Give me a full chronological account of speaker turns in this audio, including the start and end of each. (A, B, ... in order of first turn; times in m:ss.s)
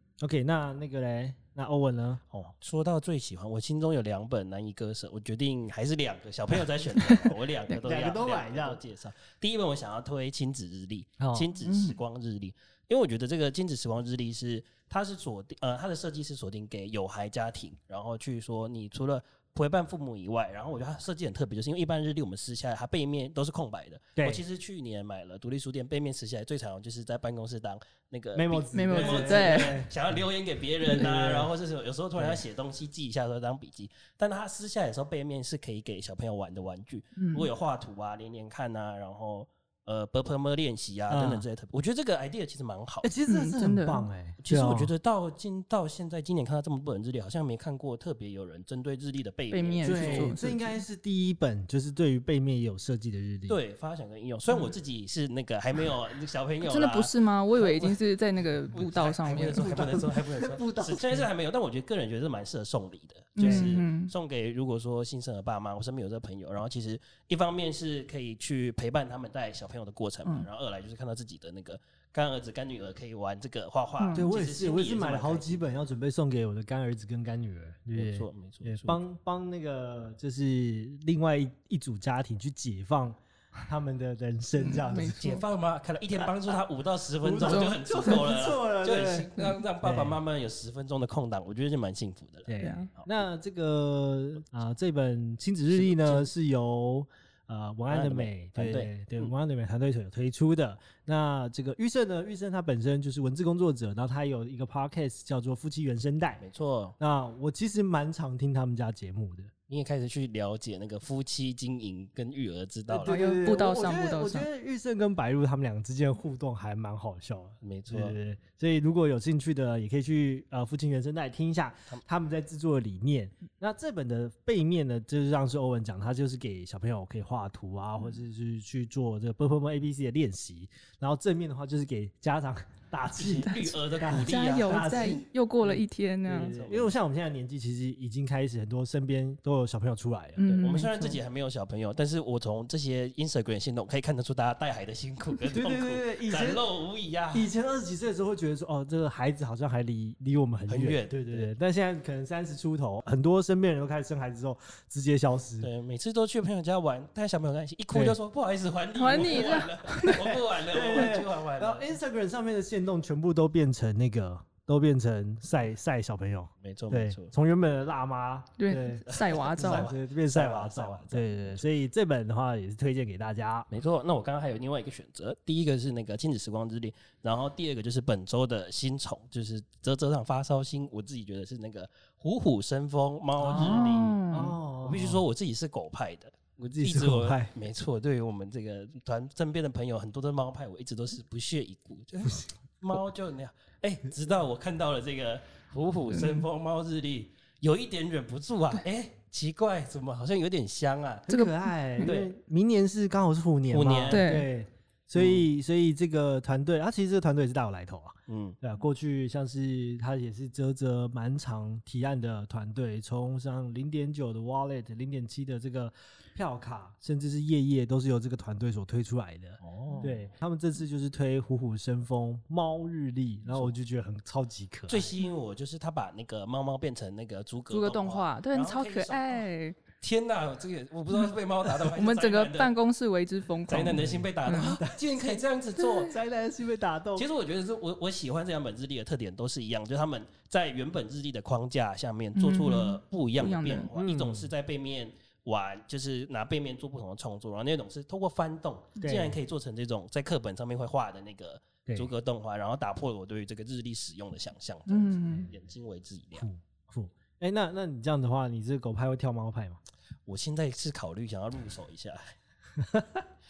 0:00.2-0:02.2 A
0:02.3-0:43.1 B
0:07.8-0:08.8 A
0:11.2-0:11.5 A
0:11.6-0:12.0 C
0:24.2-0:24.4 A
0:28.3-0:30.2 A
0:28.7-0:29.8 C
0:30.9-0:31.5 A
0:32.2-0:32.4 A
0:37.2-0:37.5 C
0:41.1-0:41.5 A
0:43.0-0:44.9 A
0:43.3-0:44.0 C
0:44.4-0:50.3 B
0:49.5-0:50.8 C
0:49.8-0:53.6 A
0:53.5-0:58.0 B
0:56.6-0:59.8 C
0:58.7-1:15.7 B
0:59.5-1:01.3 A
1:03.4-1:04.1 C
1:03.4-1:03.8 A
1:14.0-1:14.3 C
1:14.1-1:25.3 A
1:17.9-1:19.0 B
1:24.6-1:25.4 C
1:25.2-1:33.1 B
1:27.2-1:30.2 A
1:27.4-1:28.2 C
1:32.4-1:46.4 A
1:32.6-1:32.9 C
1:35.7-1:36.3 B
1:37.9-1:39.3 B
1:46.4-1:47.0 B
1:47.0-1:49.5 A
1:49.7-1:53.4 B
1:52.9-2:15.7 A
1:53.0-1:54.4 C
1:57.6-1:58.2 B
2:13.2-2:15.3 B
2:13.6-2:16.6 C
2:16.3-2:20.5 A
2:16.4-2:16.9 B
2:20.4-2:21.2 C
2:20.4-2:27.5 B
2:25.5-2:26.6 A
2:27.3-2:35.7 A
2:30.7-2:31.5 B
2:35.6-2:41.9 B
2:37.9-2:38.2 A
2:39.0-2:40.3 C
2:40.0-2:53.7 A
2:46.6-2:47.3 B
2:48.6-2:49.9 C
2:49.1-2:51.6 B
2:53.7-3:21.3 B
3:03.4-3:04.6 C
3:03.4-3:05.2 A
3:06.7-3:07.5 A
3:16.1-3:16.4 C
3:21.3-3:45.1 A
3:21.3-3:22.1 C
3:22.0-3:22.3 B
3:23.7-3:24.3 B
3:24.1-3:24.5 C
3:25.2-3:25.4 B
3:28.3-3:28.6 B
3:39.6-3:40.3 B
3:44.9-3:49.5 B
3:47.7-3:49.8 C
3:50.0-3:52.7 B
3:51.9-3:54.8 C
3:53.7-3:56.1 B
3:53.9-3:54.3 A
3:54.8-3:57.3 A
3:57.2-4:16.5 B
4:02.3-4:03.9 C
4:03.9-4:04.5 A
4:09.0-4:09.4 A
4:14.9-4:15.5 C
4:16.4-4:19.8 A
4:20.3-4:22.3 B
4:22.8-4:23.2 A